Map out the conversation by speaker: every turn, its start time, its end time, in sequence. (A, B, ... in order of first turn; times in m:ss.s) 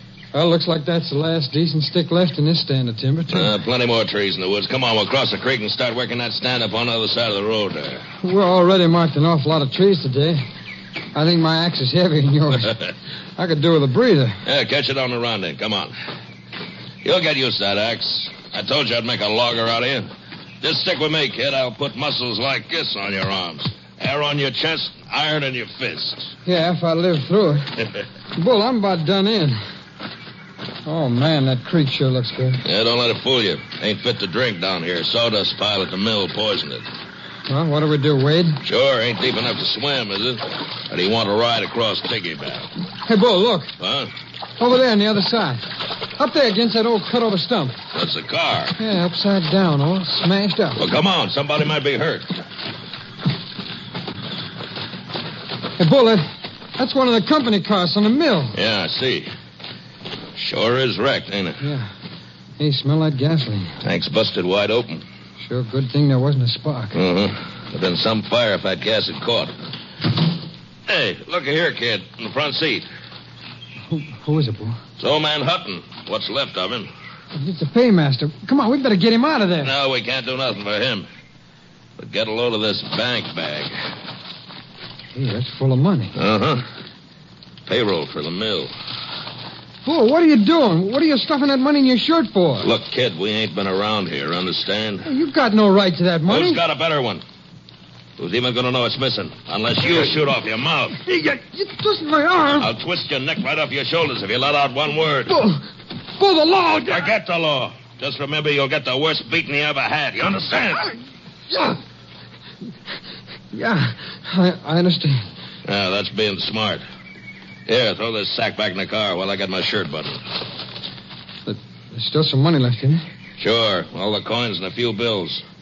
0:00.3-0:03.5 A
0:03.3-0:08.0 B
0:08.2-0:10.4 A
0:11.2-0:12.7 A
0:13.4-0:14.4 A
0:14.4-0:15.9 B
0:17.0-0:20.1 B
0:20.6-0:26.3 B
0:26.5-0:27.7 A
0:28.4-0:29.6 A
0:30.8-0:32.6 A
0:32.6-0:36.8 B
0:37.5-0:38.6 A
0:38.6-0:42.7 B
0:43.1-0:43.7 A
0:43.8-0:44.1 B
0:44.6-0:45.7 A
0:46.2-0:47.8 A
0:48.0-0:48.8 B
0:48.8-0:50.8 A
0:50.8-0:52.4 B
0:55.8-0:56.2 A
0:56.8-0:58.6 A
0:58.5-0:59.3 B
1:00.4-1:01.6 B
1:01.6-1:01.9 A
1:02.6-1:03.7 A
1:03.8-1:05.0 B
1:05.4-1:07.0 A
1:06.9-1:09.5 B
1:10.9-1:12.9 B
1:13.9-1:14.8 A
1:15.0-1:16.9 B
1:17.4-1:19.7 A
1:19.6-1:21.1 B
1:22.0-1:23.8 B
1:25.2-1:26.1 A
1:26.2-1:26.6 B
1:27.7-1:28.7 B
1:29.8-1:32.7 A
1:32.6-1:35.1 B
1:35.1-1:36.6 A
1:36.3-1:37.2 B
1:38.2-1:41.0 B
1:41.0-1:42.7 A
1:42.6-1:45.4 B
1:45.3-1:45.6 A
1:46.2-1:47.1 A
1:46.9-1:50.9 B
1:53.5-1:55.3 A
1:55.7-1:56.8 B
1:57.7-2:00.2 B
2:01.5-2:03.0 A
2:03.4-2:05.4 B